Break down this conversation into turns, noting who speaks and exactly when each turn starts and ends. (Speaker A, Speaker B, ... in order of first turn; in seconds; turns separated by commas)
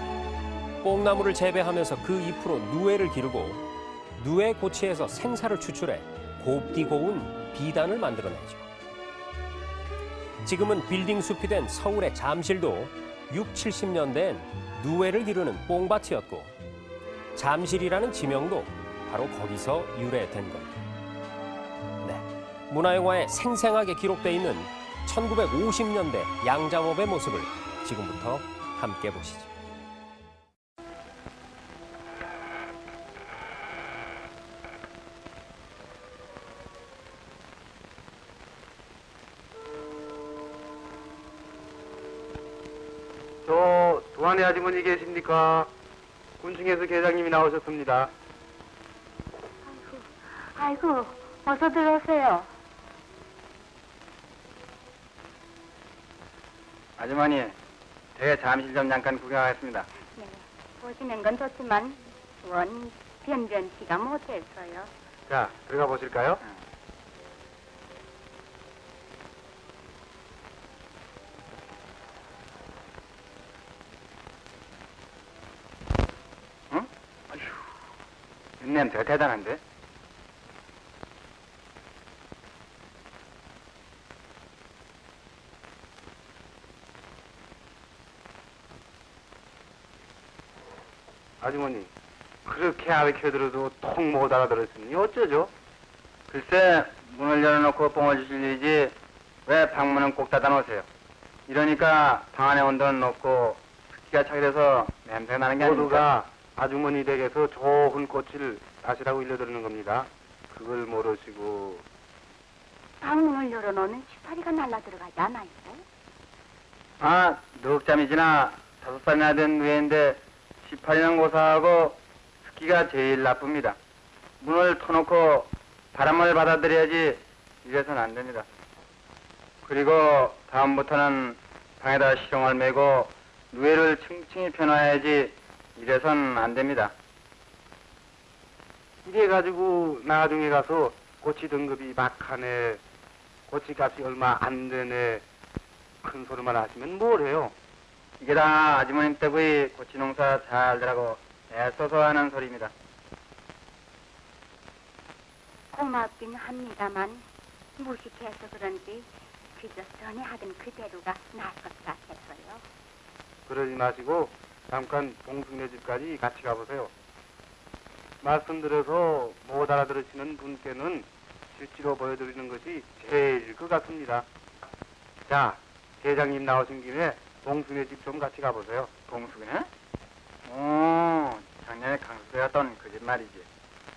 Speaker A: 0.8-3.6, Speaker A: 4.2-8.7, Speaker A: 10.4-16.5, Speaker A: 17.3-20.8, Speaker A: 22.0-29.5, Speaker B: 43.4-45.7, Speaker B: 46.4-48.1, Speaker C: 49.6-52.5, Speaker D: 57.0-57.5, Speaker D: 58.1-59.9, Speaker C: 60.1-64.9, Speaker B: 65.3-66.4, Speaker D: 76.7-77.5, Speaker D: 78.6-79.6, Speaker B: 91.4-91.9, Speaker B: 92.4-95.5, Speaker D: 96.3-100.8, Speaker D: 101.5-106.1, Speaker B: 105.6-111.8, Speaker C: 113.0-115.8, Speaker D: 117.0-123.8, Speaker D: 124.4-128.5, Speaker D: 129.6-136.9, Speaker B: 139.0-142.8, Speaker B: 143.5-145.2, Speaker B: 146.0-147.5, Speaker D: 148.2-152.7, Speaker C: 155.7-157.2, Speaker C: 157.8-162.6, Speaker B: 163.5-166.9, Speaker B: 168.2-174.2, Speaker B: 175.3-178.9, Speaker D: 179.1-179.7, Speaker D: 180.4-183.5